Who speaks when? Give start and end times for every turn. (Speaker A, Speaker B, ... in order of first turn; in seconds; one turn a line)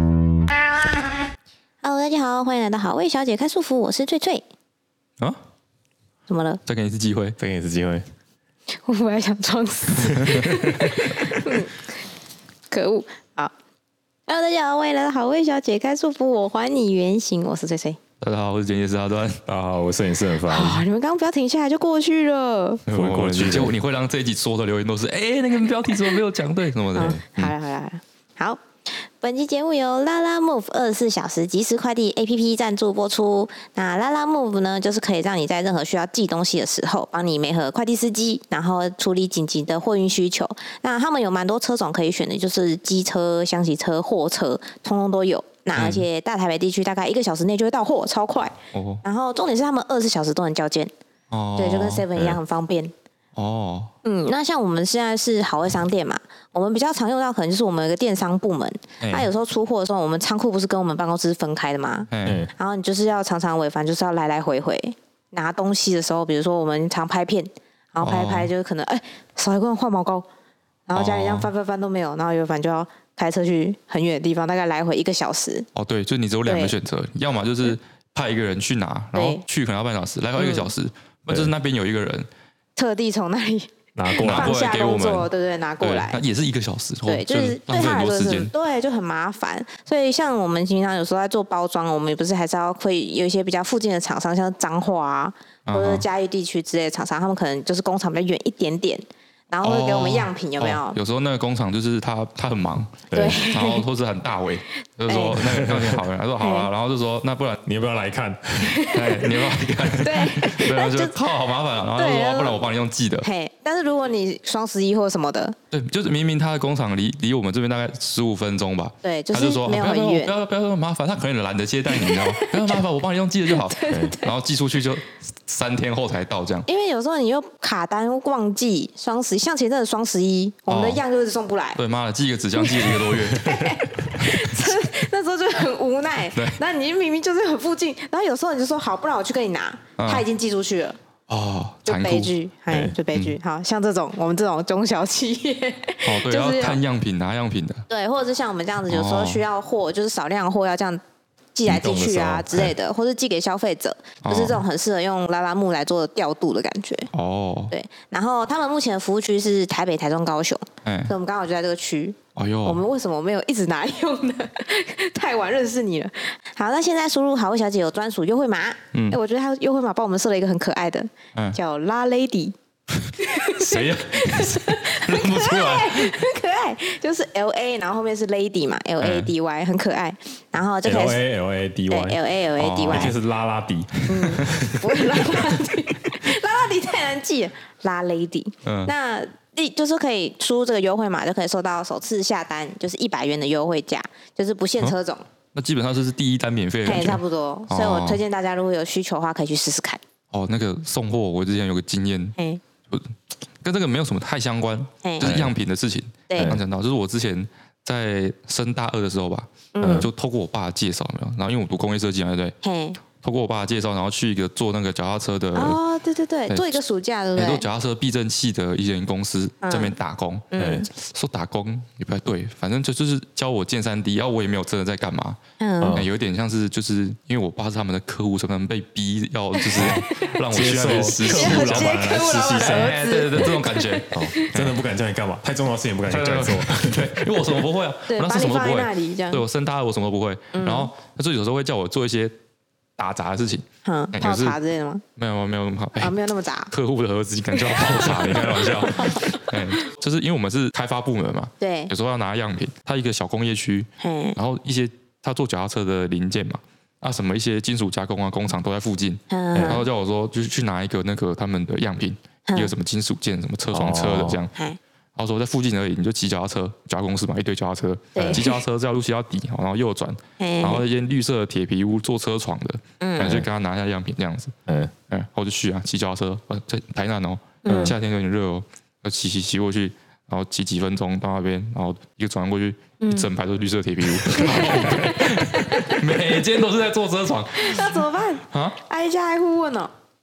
Speaker A: 1.8-4.4
Speaker A: 6.3-6.6
Speaker B: 6.6-7.4
Speaker C: 7.4-8.0
Speaker A: 8.8-11.7
Speaker B: 10.2-10.7
Speaker A: 12.7-13.5
Speaker A: 14.3-18.0
Speaker B: 18.2-19.4
Speaker C: 19.4-20.8
Speaker A: 20.5-22.8
Speaker B: 22.9-27.5
Speaker C: 22.9-23.8
Speaker A: 26.9-50.9
Speaker B: 45.8-46.0
Speaker B: 48.7-49.0
Speaker B: 51.3-52.0
Speaker A: 51.6-52.9
Speaker B: 53.4-53.9
Speaker A: 54.0-70.3
Speaker B: 59.0-59.3
Speaker B: 62.1-62.5
Speaker C: 62.2-62.5
Speaker B: 68.0-68.5
Speaker A: 70.9-75.7
Speaker B: 70.9-71.5
Speaker B: 75.7-82.3
Speaker A: 76.4-76.7
Speaker A: 79.1-79.4
Speaker A: 80.4-80.7
Speaker A: 82.8-86.2
Speaker C: 84.0-84.6
Speaker B: 84.2-85.3
Speaker B: 85.8-88.5
Speaker A: 87.0-101.0
Speaker B: 95.7-96.0
Speaker B: 99.6-107.6
Speaker C: 103.1-103.5
Speaker A: 103.1-103.8
Speaker A: 105.1-105.5
Speaker C: 105.4-106.0
Speaker A: 106.4-106.7
Speaker C: 107.7-108.8
Speaker A: 108.6-111.1
Speaker B: 108.9-113.3
Speaker A: 112.0-112.6
Speaker A: 113.2-115.6
Speaker B: 115.7-126.7
Speaker A: 119.0-120.3
Speaker A: 121.9-122.8
Speaker A: 123.5-124.3
Speaker A: 126.7-131.8
Speaker B: 130.7-131.0
Speaker B: 131.8-133.5
Speaker A: 132.6-141.0
Speaker C: 133.1-134.0
Speaker B: 136.3-136.6
Speaker B: 140.0-140.2
Speaker B: 141.3-142.3
Speaker A: 141.8-146.8
Speaker C: 142.7-142.9
Speaker B: 143.1-143.4
Speaker B: 146.0-147.8
Speaker A: 147.9-151.0
Speaker B: 148.9-149.4
Speaker A: 151.5-157.1
Speaker C: 151.7-152.7
Speaker B: 154.2-154.6
Speaker B: 157.1-157.7
Speaker A: 157.7-172.5
Speaker B: 160.8-161.1
Speaker B: 162.3-162.8
Speaker B: 168.9-169.2
Speaker A: 173.1-181.2
Speaker B: 173.6-176.1
Speaker B: 179.0-179.3
Speaker C: 180.8-182.2
Speaker A: 181.9-183.1
Speaker B: 182.6-183.1
Speaker C: 182.9-185.2
Speaker A: 184.1-195.2
Speaker B: 188.6-188.9
Speaker B: 195.5-198.2
Speaker A: 196.8-200.0
Speaker B: 200.3-202.3
Speaker B: 202.9-212.6
Speaker A: 205.0-205.3
Speaker C: 205.2-205.5
Speaker A: 206.3-206.6
Speaker C: 206.4-206.6
Speaker A: 209.7-210.1
Speaker C: 209.8-210.1
Speaker A: 212.6-213.0
Speaker B: 213.1-215.8
Speaker A: 215.5-217.6
Speaker B: 216.5-216.8
Speaker B: 217.3-225.4
Speaker A: 219.6-219.9
Speaker A: 220.5-220.9
Speaker C: 220.6-220.9
Speaker A: 225.6-226.0
Speaker C: 225.8-226.1
Speaker B: 225.9-234.8
Speaker A: 229.6-230.3
Speaker C: 229.7-233.5
Speaker A: 230.9-234.5
Speaker C: 234.1-237.5
Speaker B: 236.1-242.3
Speaker A: 238.1-239.4
Speaker A: 240.5-240.9
Speaker B: 243.0-244.6
Speaker A: 243.8-245.0
Speaker B: 245.2-246.1
Speaker A: 246.0-246.7
Speaker B: 246.7-264.5
Speaker A: 247.6-249.8
Speaker C: 247.9-248.7
Speaker A: 251.6-251.9
Speaker A: 254.0-254.4
Speaker A: 259.3-259.8
Speaker C: 259.5-259.8
Speaker A: 262.5-262.7
Speaker C: 263.7-264.4
Speaker A: 264.5-264.8
Speaker B: 265.1-274.5
Speaker A: 268.1-268.5
Speaker C: 268.1-268.4
Speaker A: 270.4-270.8
Speaker A: 273.0-273.4
Speaker C: 273.2-273.4
Speaker C: 274.7-274.9
Speaker B: 275.1-288.8
Speaker A: 277.6-277.9
Speaker C: 277.7-277.9
Speaker A: 283.0-283.3
Speaker A: 284.3-286.0
Speaker A: 287.6-289.9